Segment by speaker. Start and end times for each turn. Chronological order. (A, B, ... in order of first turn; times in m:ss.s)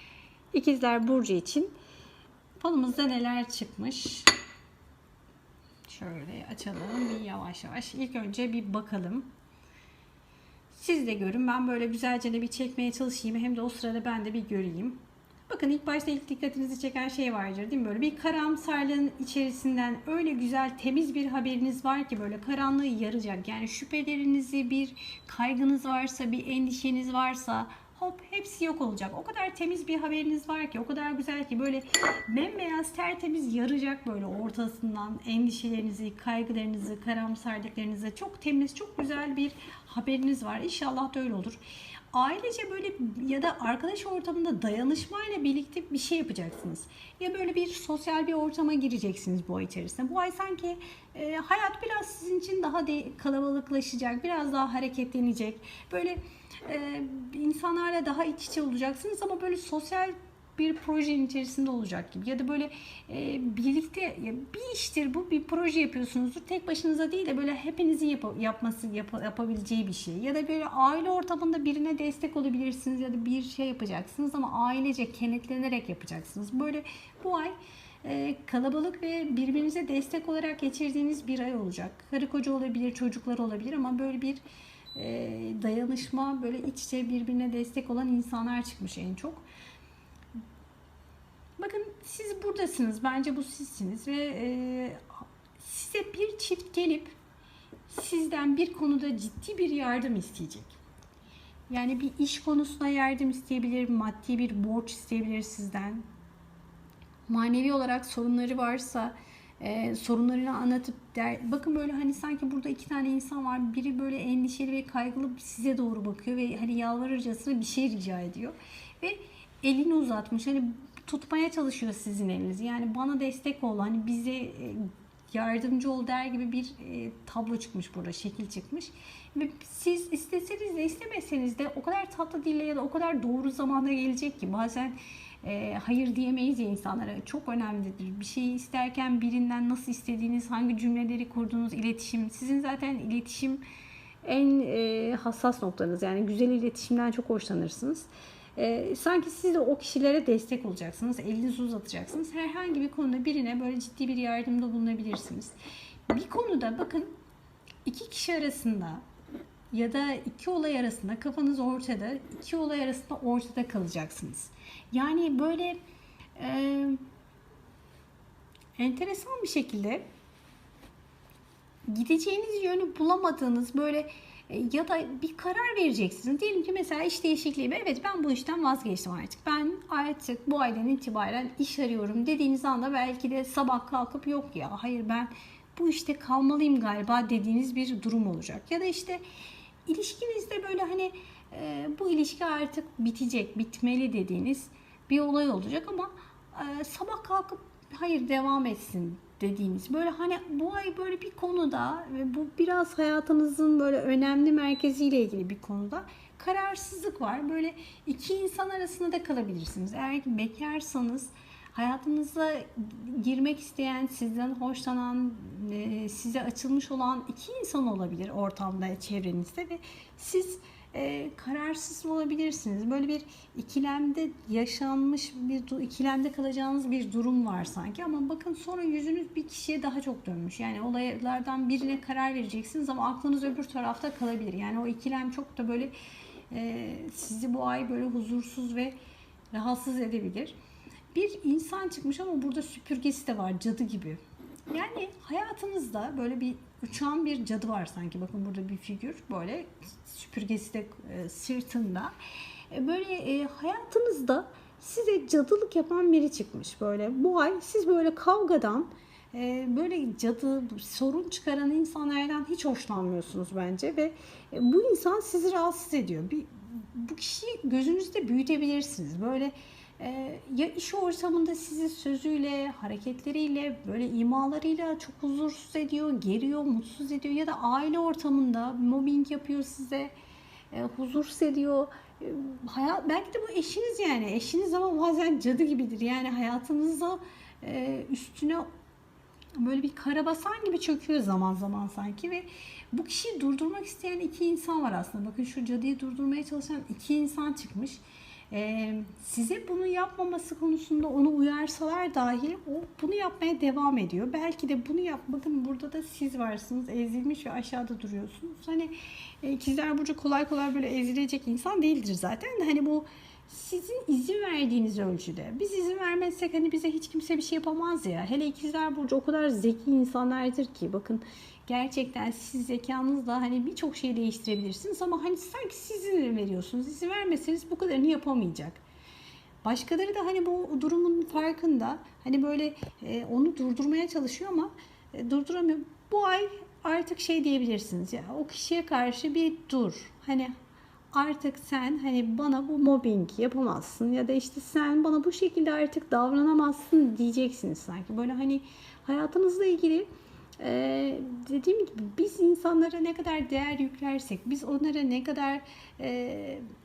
0:00.5-0:01.7 A
0:02.6-0:04.3 A
0:05.9-0:09.3 A
0:10.7-0:41.6 A
0:42.1-1:24.4 A
1:24.9-1:29.4 A
1:31.6-1:37.1 A
1:37.9-1:40.8 A
1:41.7-1:46.0 A
1:47.3-2:23.6 A
2:24.2-2:35.6 A
2:36.1-2:37.1 A
2:37.8-2:39.0 A
2:39.7-2:45.8 A
2:46.4-2:47.0 A
2:48.8-2:50.0 A
2:51.8-3:09.2 A
3:09.8-3:55.9 A
3:56.5-3:59.0 A
3:59.5-4:00.5 A
4:01.1-4:12.1 A
4:12.7-4:40.1 A
4:40.7-4:48.7 A
4:49.6-5:28.8 A
5:29.6-5:40.5 A
5:41.1-5:50.1 A
5:50.6-5:56.6 A